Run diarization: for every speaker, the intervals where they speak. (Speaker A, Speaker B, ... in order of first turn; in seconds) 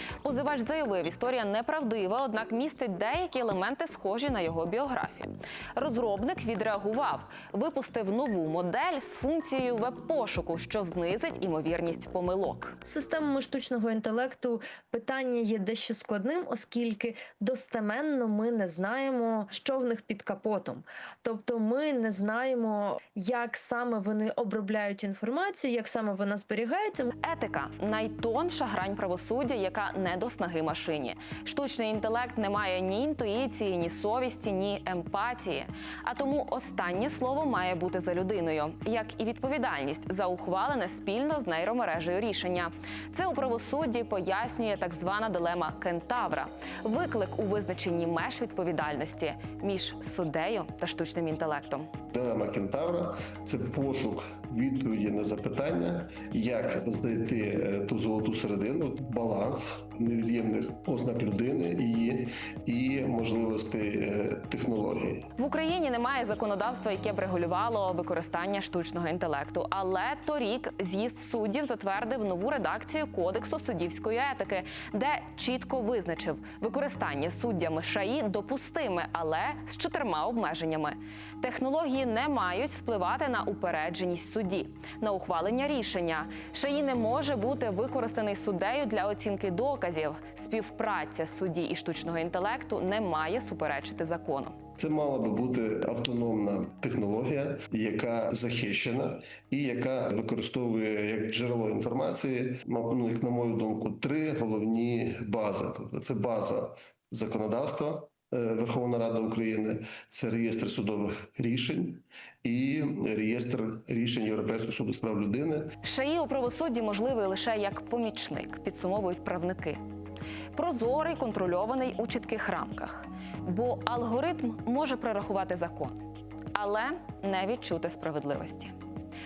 Speaker A: 0.2-12.8, 27.2-51.9, 65.4-94.6, 115.8-119.8, 120.5-126.0, 126.5-128.8
Speaker B: 12.8-27.1
Speaker C: 52.1-65.3, 94.8-115.8